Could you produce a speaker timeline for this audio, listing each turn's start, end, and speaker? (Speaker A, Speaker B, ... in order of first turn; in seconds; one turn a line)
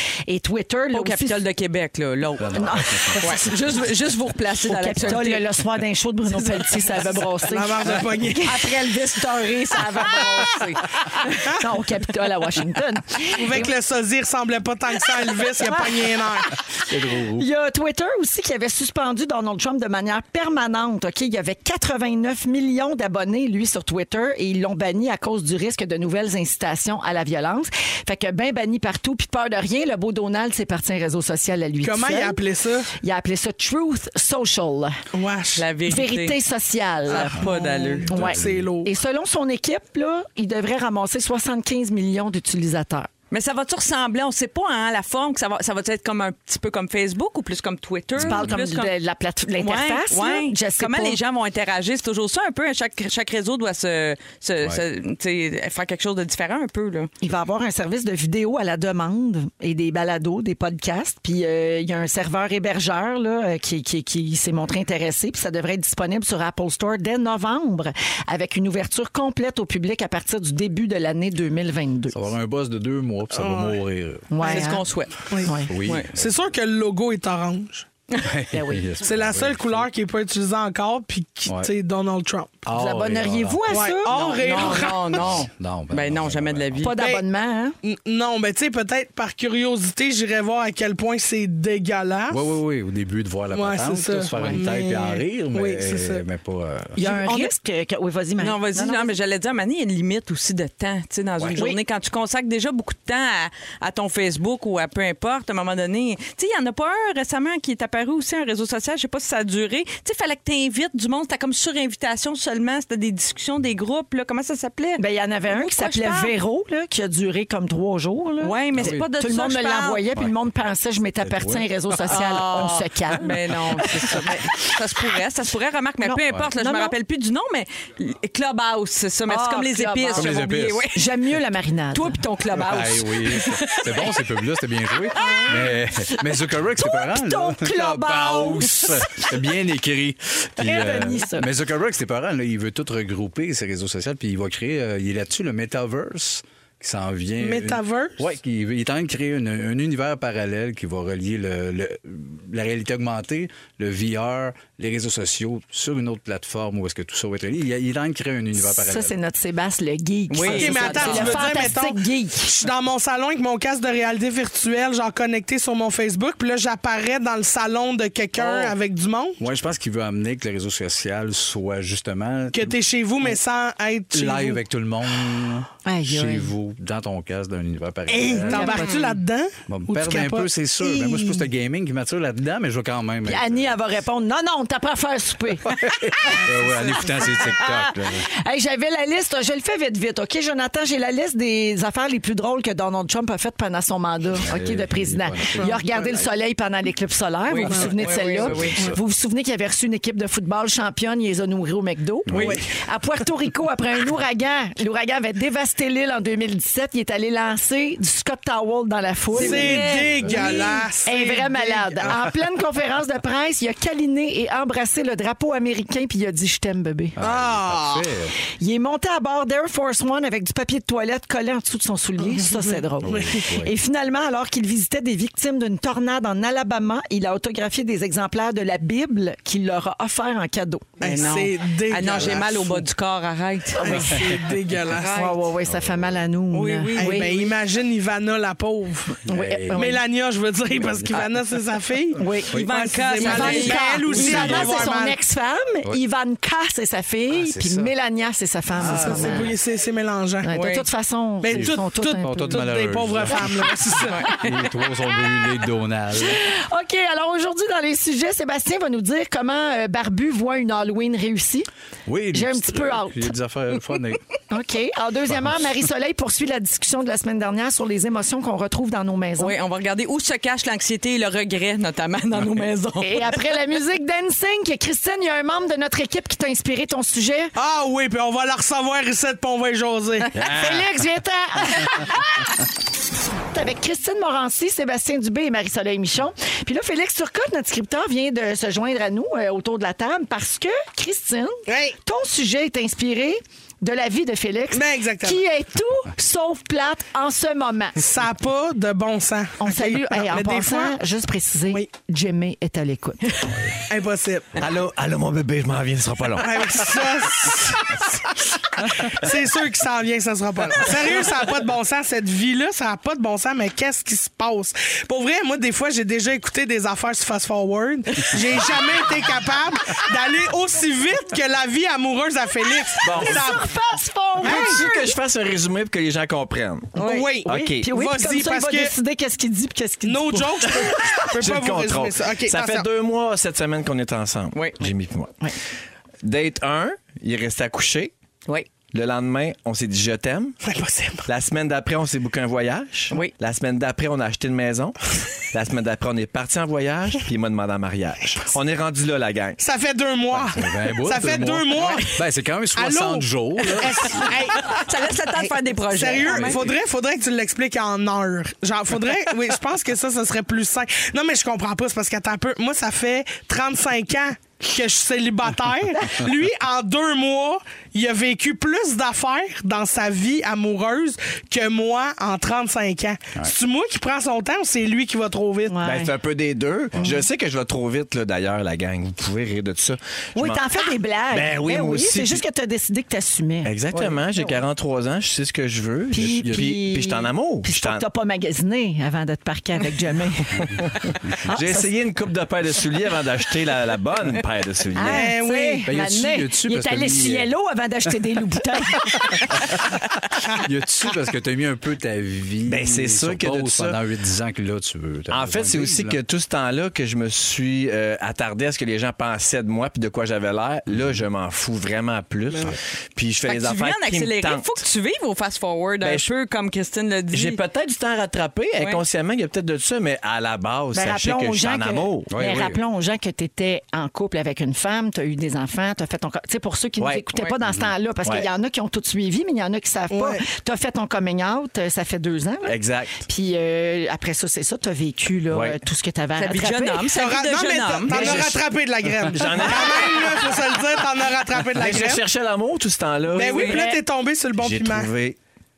Speaker A: 0.3-1.4
Speaker B: 0.9-2.6
Speaker C: 2.4-3.5
Speaker A: 2.5-3.5
Speaker B: 3.2-5.5
Speaker A: 4.7-13.7
Speaker D: 7.4-8.6
Speaker B: 10.1-10.7
Speaker D: 13.3-16.5
Speaker A: 15.6-16.1
Speaker C: 16.9-17.4
Speaker A: 17.4-32.4
Speaker D: 31.8-32.9
Speaker A: 33.0-35.0
Speaker D: 35.1-35.6
Speaker B: 35.5-36.4
Speaker A: 35.9-37.4
Speaker B: 37.1-38.1
Speaker D: 37.1-38.9
Speaker A: 38.1-43.1
Speaker C: 38.1-38.7
Speaker B: 43.3-48.9
Speaker C: 48.1-48.6
Speaker A: 48.2-51.2
Speaker B: 49.6-57.1
Speaker A: 57.2-72.2
Speaker C: 72.1-74.3
Speaker D: 73.3-73.8
Speaker A: 74.3-74.8
Speaker B: 74.4-75.3
Speaker A: 75.4-75.7
Speaker C: 75.7-76.4
Speaker B: 75.8-76.1
Speaker D: 76.1-77.8
Speaker C: 78.2-79.9
Speaker A: 78.5-78.8
Speaker D: 79.0-82.6
Speaker C: 81.5-81.7
Speaker C: 82.6-83.9
Speaker A: 82.7-84.9
Speaker D: 83.7-85.4
Speaker B: 84.1-87.0
Speaker C: 85.1-86.9
Speaker A: 86.8-87.8
Speaker D: 87.0-87.2
Speaker D: 87.8-92.4
Speaker C: 92.3-97.0
Speaker D: 93.5-96.2
Speaker A: 97.0-99.1
Speaker B: 97.0-97.5
Speaker B: 98.4-116.3
Speaker C: 101.4-101.6
Speaker A: 115.0-123.4
Speaker B: 118.4-120.0
Speaker C: 118.7-119.0
Speaker C: 121.2-121.7
Speaker B: 122.1-131.1
Speaker C: 123.8-124.3
Speaker A: 126.0-126.9
Speaker A: 129.3-130.3
Speaker C: 130.1-130.8
Speaker A: 130.9-132.2
Speaker B: 131.9-134.1
Speaker C: 132.5-159.2
Speaker B: 135.2-135.6
Speaker A: 135.2-135.6
Speaker A: 136.8-139.3
Speaker A: 140.6-141.5
Speaker D: 147.4-148.2
Speaker A: 158.6-162.5
Speaker B: 160.3-161.5
Speaker D: 160.4-169.4
Speaker B: 168.4-168.7
Speaker C: 169.4-173.4
Speaker D: 172.5-174.6
Speaker C: 174.1-178.9
Speaker A: 175.8-176.5
Speaker D: 178.1-181.4
Speaker A: 178.4-179.0
Speaker C: 179.7-183.7
Speaker A: 183.2-217.2
Speaker C: 185.7-188.3
Speaker C: 194.4-195.8
Speaker B: 197.5-198.8
Speaker C: 198.4-199.0
Speaker C: 202.2-202.6
Speaker B: 202.3-202.6
Speaker D: 202.3-202.6
Speaker D: 209.3-212.2
Speaker B: 209.3-210.8
Speaker C: 209.5-210.6
Speaker C: 217.2-218.3
Speaker D: 217.2-218.1
Speaker A: 218.6-230.9
Speaker D: 222.2-223.4
Speaker C: 223.0-223.7
Speaker D: 231.0-232.9
Speaker B: 231.0-234.2
Speaker D: 233.8-235.2
Speaker B: 234.9-235.3
Speaker A: 235.0-237.3
Speaker C: 235.7-236.2
Speaker B: 236.5-237.5
Speaker D: 237.0-239.2
Speaker A: 239.3-240.0
Speaker C: 239.3-239.9
Speaker D: 239.7-245.2
Speaker A: 242.2-242.6
Speaker B: 242.5-244.9
Speaker A: 243.1-249.5
Speaker C: 247.3-247.9
Speaker C: 248.8-249.5
Speaker D: 248.8-250.5
Speaker A: 250.4-252.7
Speaker B: 250.5-250.8
Speaker D: 251.4-254.2
Speaker C: 251.5-256.4
Speaker A: 256.2-261.7
Speaker C: 262.1-264.2
Speaker A: 262.3-263.3
Speaker A: 264.5-269.5
Speaker C: 265.3-265.7
Speaker B: 269.4-273.4
Speaker A: 273.0-277.5
Speaker D: 277.6-280.3
Speaker A: 280.4-282.4
Speaker E: 280.4-280.8
Speaker A: 283.5-298.0
Speaker D: 291.7-291.9
Speaker D: 294.7-295.4
Speaker D: 298.0-301.0
Speaker A: 299.6-303.4
Speaker D: 303.9-304.6
Speaker E: 304.6-307.0
Speaker D: 306.4-308.2
Speaker D: 308.8-323.7
Speaker E: 323.0-323.5
Speaker A: 323.1-325.1
Speaker D: 324.4-324.8
Speaker E: 324.4-327.9
Speaker D: 327.0-328.9
Speaker B: 327.0-327.3
Speaker A: 327.0-330.9
Speaker D: 330.0-332.9
Speaker E: 331.3-335.3
Speaker B: 334.5-334.8
Speaker E: 336.2-338.1
Speaker E: 338.9-340.6
Speaker D: 340.6-341.3
Speaker E: 341.2-345.0
Speaker E: 345.5-349.6
Speaker D: 349.6-352.2
Speaker C: 350.3-354.3
Speaker B: 351.7-352.1
Speaker D: 352.7-354.8
Speaker B: 354.2-356.7
Speaker D: 355.4-375.8
Speaker C: 356.3-356.6
Speaker A: 375.7-376.1
Speaker E: 375.8-380.7
Speaker A: 380.3-383.7
Speaker E: 381.3-382.4
Speaker E: 383.6-388.0
Speaker A: 386.1-390.8
Speaker C: 386.2-386.7
Speaker E: 390.6-395.3
Speaker A: 391.4-391.9
Speaker A: 394.9-399.4
Speaker D: 395.1-395.9
Speaker C: 395.8-397.5
Speaker C: 400.6-406.2
Speaker E: 402.6-404.0
Speaker E: 405.3-414.8
Speaker B: 413.4-417.6
Speaker E: 416.0-416.3
Speaker E: 417.3-422.3
Speaker A: 420.9-437.1
Speaker C: 422.3-422.8
Speaker C: 427.7-427.9
Speaker D: 430.1-430.4
Speaker E: 432.6-433.2
Speaker E: 435.5-435.8
Speaker B: 436.4-438.5
Speaker D: 437.1-442.2
Speaker E: 438.1-438.6
Speaker E: 439.3-440.4
Speaker E: 441.7-443.8
Speaker D: 443.3-445.1
Speaker B: 443.4-443.9
Speaker A: 443.6-444.0
Speaker E: 444.6-445.4